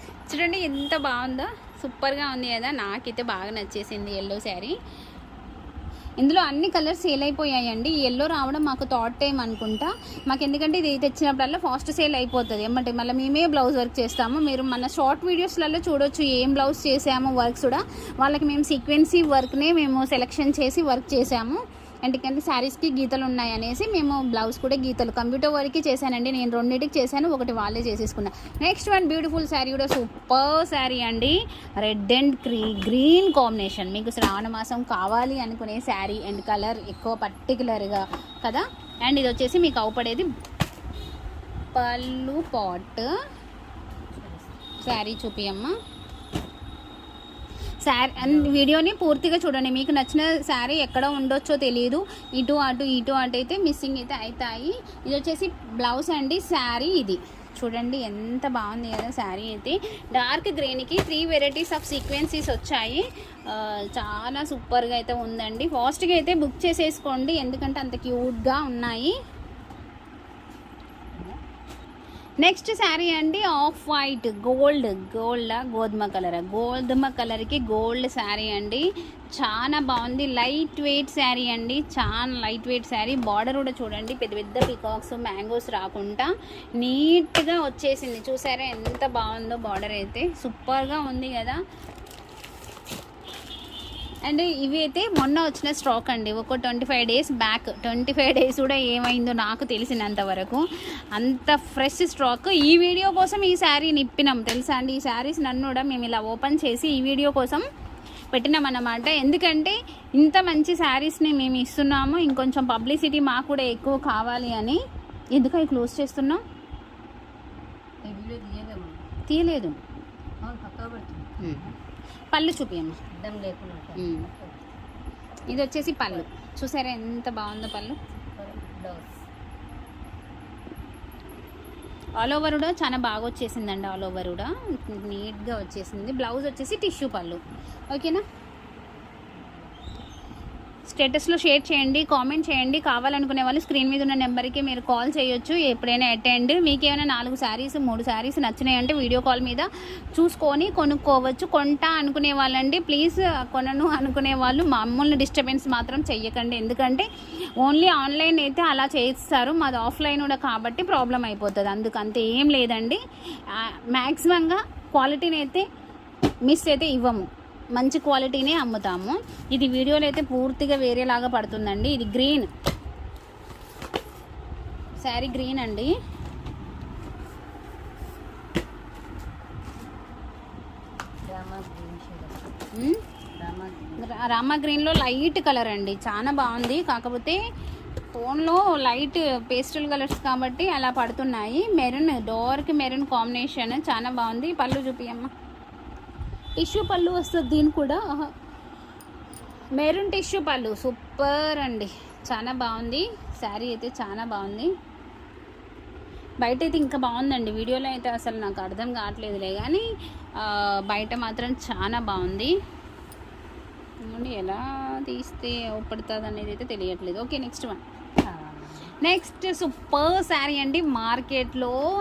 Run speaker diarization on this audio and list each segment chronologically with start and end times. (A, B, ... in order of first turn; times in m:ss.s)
0:00.2-0:04.8 A
0:06.2-0:40.3 A
0:41.7-0:43.1 A
0:44.1-0:44.6 B
0:44.8-0:45.7 A
0:47.8-1:09.1 A
0:48.2-0:48.6 B
1:12.4-1:31.6 A
1:34.2-1:47.6 A
1:48.3-1:54.8 A
1:55.3-1:56.4 A
1:58.0-1:59.0 B
1:59.3-1:59.8 A
2:00.4-2:01.7 B
2:01.4-2:01.7 A
2:02.3-2:03.0 A
2:03.1-2:04.8 B
2:04.0-2:04.3 A
2:05.5-2:08.0 A
2:08.1-2:09.2 B
2:12.2-2:17.4 A
2:17.9-2:18.2 A
2:19.3-2:20.0 B
2:20.9-2:37.1 A
2:37.6-2:45.6 A
2:46.5-2:52.5 A
2:55.0-2:55.9 A
3:01.2-3:02.6 B
3:02.7-3:03.0 A
3:03.3-3:04.1 B
3:04.0-3:07.4 A
3:08.1-3:15.3 A
3:16.6-3:18.3 A
3:19.8-3:24.7 A
3:26.4-3:32.6 A
3:34.0-3:37.8 A
3:38.2-3:39.0 B
3:39.0-3:41.8 A